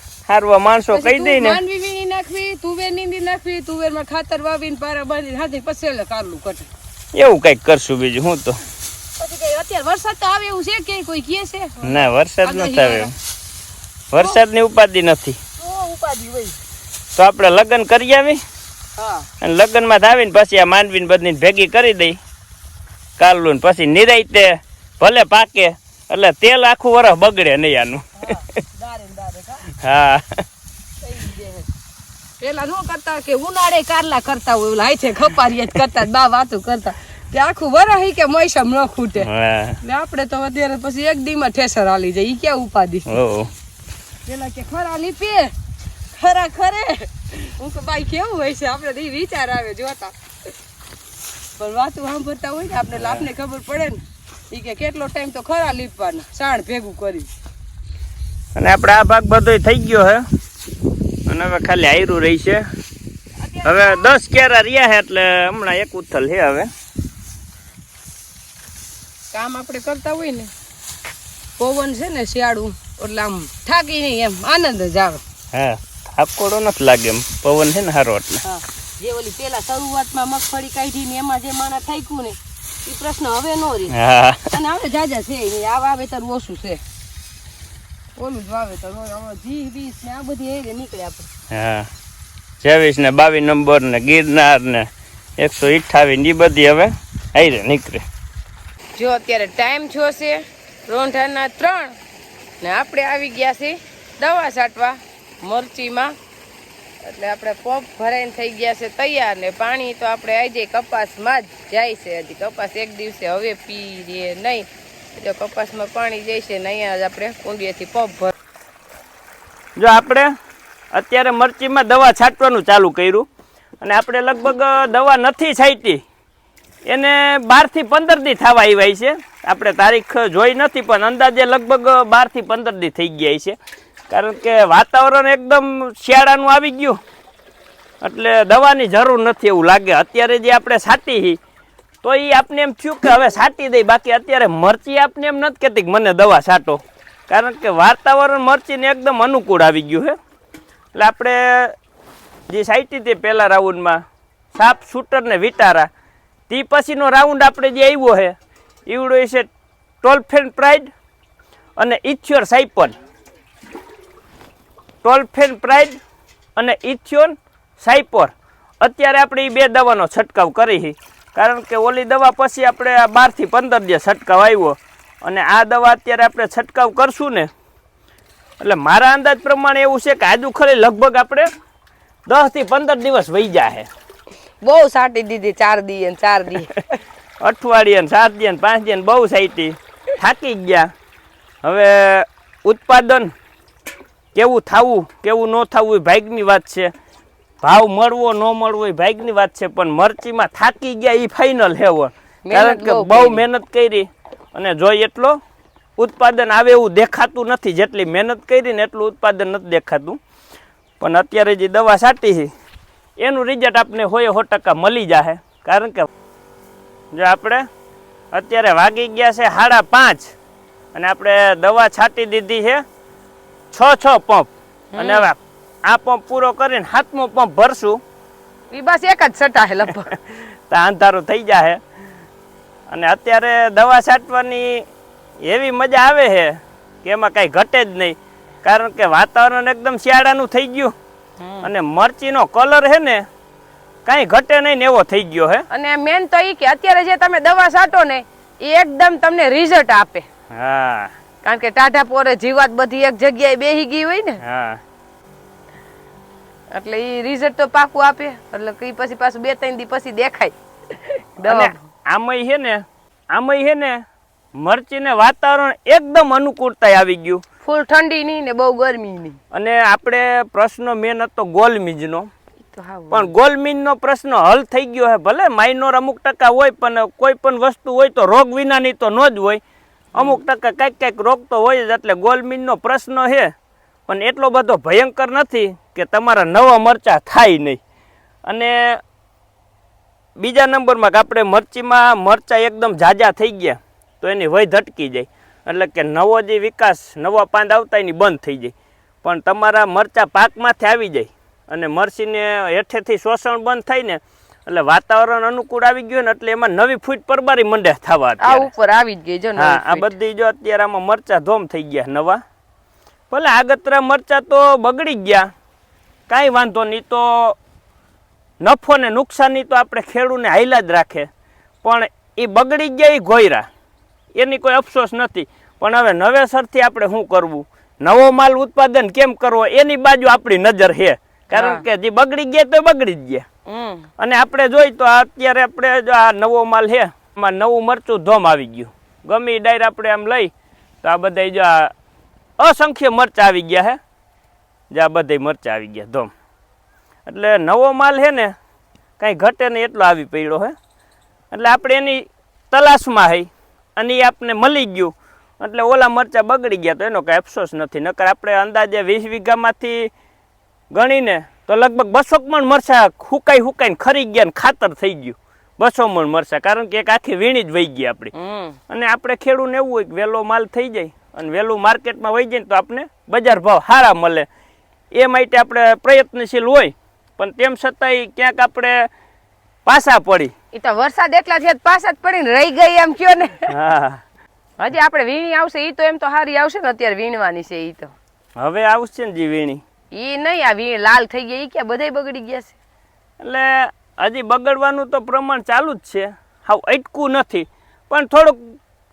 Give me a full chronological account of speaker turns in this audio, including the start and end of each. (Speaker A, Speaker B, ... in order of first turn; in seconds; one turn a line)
Speaker A: 0.3-1.6
Speaker B: 0.9-6.7
Speaker A: 7.1-8.6
Speaker B: 9.2-13.1
Speaker A: 11.8-13.1
Speaker A: 14.1-15.4
Speaker B: 15.6-16.6
Speaker A: 17.1-18.4
Speaker B: 19.0-19.3
Speaker A: 19.4-22.2
Speaker A: 23.2-28.4
Speaker B: 28.2-29.6
Speaker A: 29.7-30.4
Speaker B: 31.0-31.7
Speaker B: 32.4-39.3
Speaker A: 39.2-39.8
Speaker B: 39.8-43.1
Speaker A: 43.1-43.5
Speaker B: 44.2-45.5
Speaker B: 46.1-50.1
Speaker B: 51.6-57.3
Speaker A: 53.0-53.2
Speaker A: 58.5-60.2
Speaker A: 61.2-62.6
Speaker B: 63.4-64.0
Speaker A: 63.6-66.7
Speaker B: 69.3-70.5
Speaker B: 71.6-75.2
Speaker A: 75.5-78.4
Speaker B: 78.4-84.0
Speaker A: 83.9-84.5
Speaker B: 84.5-86.8
Speaker B: 88.2-91.3
Speaker A: 91.5-91.9
Speaker A: 92.6-98.0
Speaker B: 99.0-102.0
Speaker B: 102.6-106.1
Speaker B: 107.0-118.3
Speaker A: 119.8-120.3
Speaker A: 120.9-123.3
Speaker A: 123.8-126.0
Speaker A: 126.8-133.6
Speaker A: 134.1-137.0
Speaker A: 138.0-141.4
Speaker A: 142.0-150.2
Speaker A: 150.9-151.7
Speaker A: 152.5-154.0
Speaker A: 154.5-155.9
Speaker A: 156.5-158.3
Speaker A: 158.9-159.5
Speaker A: 160.0-160.9
Speaker A: 161.8-162.9
Speaker A: 165.0-166.0
Speaker A: 166.6-177.5
Speaker A: 178.6-181.5
Speaker A: 182.2-183.9
Speaker B: 184.6-186.8
Speaker A: 187.4-190.9
Speaker A: 191.6-193.3
Speaker A: 194.3-196.9
Speaker A: 197.6-205.4
Speaker B: 202.4-203.4
Speaker A: 206.0-210.2
Speaker A: 211.0-212.5
Speaker A: 213.2-216.1
Speaker A: 217.1-217.7
Speaker A: 218.3-220.3
Speaker A: 220.9-222.8
Speaker A: 223.7-228.0
Speaker B: 224.9-225.3
Speaker B: 228.7-230.1
Speaker A: 230.1-231.8
Speaker A: 232.9-234.8
Speaker A: 235.4-240.9
Speaker B: 241.4-241.7
Speaker A: 241.6-243.2
Speaker A: 244.1-245.7
Speaker B: 245.7-250.2
Speaker A: 250.5-251.1
Speaker B: 251.4-254.4
Speaker A: 254.4-254.8
Speaker B: 256.7-261.9
Speaker A: 261.4-264.0
Speaker A: 264.6-267.4
Speaker B: 267.6-269.4
Speaker A: 269.5-272.3
Speaker B: 272.6-273.3
Speaker A: 273.1-279.6
Speaker A: 280.1-283.5
Speaker A: 284.1-287.8
Speaker A: 288.4-289.0
Speaker A: 290.4-308.7
Speaker B: 308.4-310.1
Speaker A: 309.6-312.4
Speaker A: 313.3-315.5
Speaker A: 316.3-317.6
Speaker A: 318.6-321.3
Speaker A: 321.8-323.7
Speaker A: 324.3-333.4
Speaker B: 331.5-331.8
Speaker B: 333.6-334.1
Speaker A: 334.2-340.5
Speaker A: 341.0-341.9
Speaker A: 342.6-344.0
Speaker A: 344.9-346.3
Speaker A: 347.2-348.5
Speaker A: 349.2-350.7
Speaker A: 351.5-360.1
Speaker A: 360.9-368.3
Speaker B: 368.3-368.8
Speaker A: 368.9-374.5
Speaker A: 375.1-379.1
Speaker A: 379.8-380.5
Speaker B: 380.7-383.7
Speaker A: 383.7-384.2
Speaker B: 384.8-388.1
Speaker A: 388.6-389.8
Speaker B: 390.1-392.7
Speaker A: 393.4-398.8